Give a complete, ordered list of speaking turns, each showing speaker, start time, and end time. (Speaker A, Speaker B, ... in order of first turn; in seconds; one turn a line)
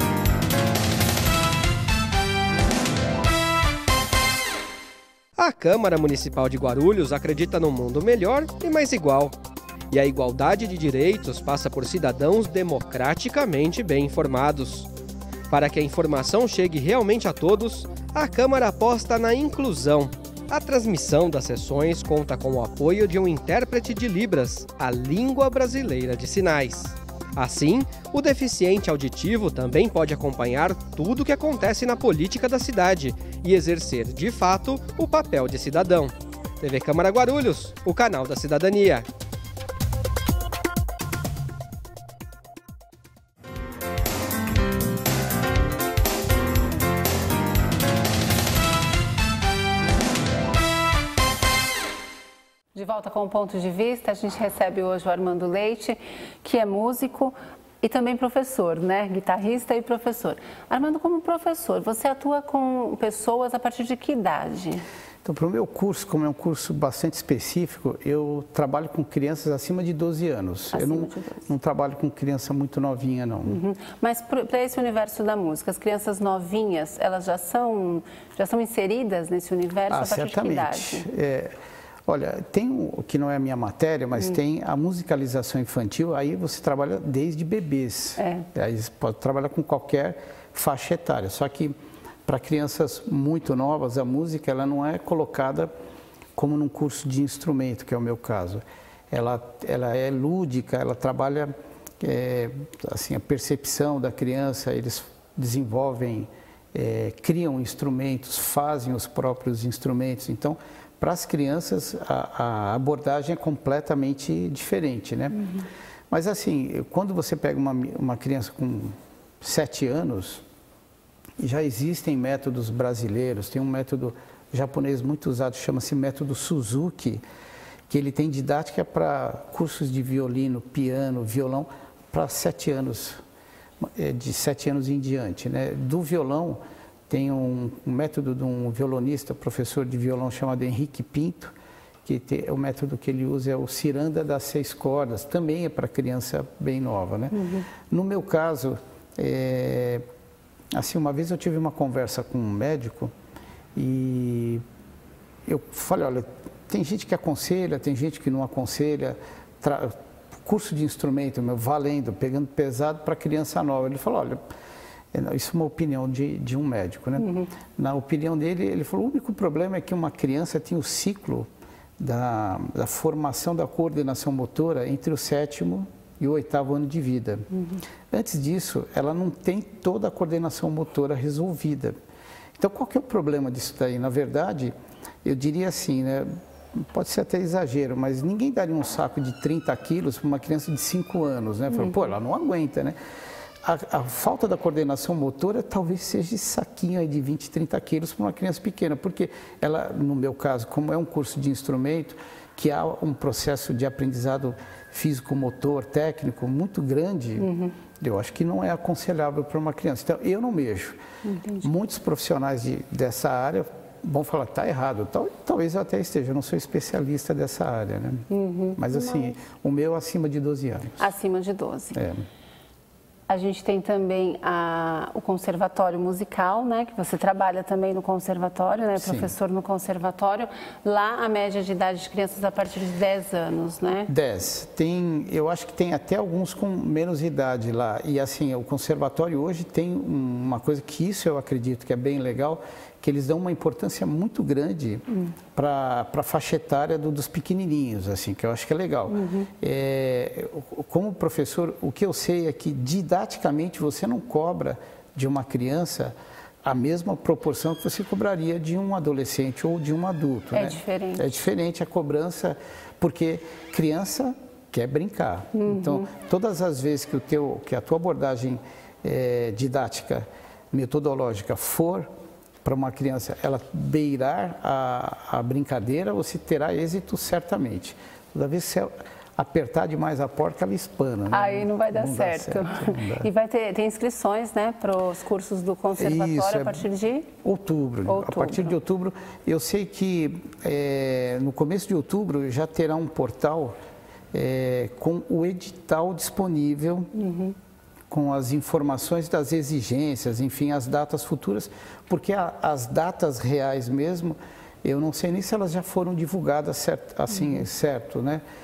Speaker A: 5.4-9.3
Speaker A: 9.9-14.9
Speaker A: 15.5-39.1
Speaker B: 52.8-64.8
Speaker C: 65.2-73.6
Speaker B: 70.7-71.5
Speaker B: 73.5-81.1
Speaker C: 79.9-81.5
Speaker C: 82.1-95.7
Speaker B: 88.2-88.5
Speaker C: 96.3-115.5
Speaker C: 116.1-120.5
Speaker C: 121.4-127.2
Speaker C: 127.9-133.2
Speaker C: 133.8-147.4
Speaker B: 147.3-147.7
Speaker C: 147.9-150.1
Speaker C: 150.7-153.1
Speaker C: 153.8-154.6
Speaker C: 155.5-164.4
Speaker C: 165.1-177.5
Speaker B: 167.2-167.5
Speaker C: 178.1-181.9
Speaker C: 182.6-193.0
Speaker C: 193.6-211.0
Speaker B: 207.4-207.7
Speaker B: 211.2-211.7
Speaker C: 211.6-221.1
Speaker B: 218.3-219.3
Speaker B: 221.0-222.0
Speaker C: 221.9-222.3
Speaker B: 223.3-234.1
Speaker C: 229.0-229.3
Speaker C: 234.1-272.1
Speaker B: 249.1-249.5
Speaker B: 260.5-261.3
Speaker B: 265.5-266.1
Speaker C: 272.6-283.3
Speaker B: 281.3-287.3
Speaker C: 285.9-286.9
Speaker C: 287.4-293.8
Speaker B: 288.1-288.7
Speaker C: 294.3-297.1
Speaker B: 297.1-297.6
Speaker C: 298.1-308.4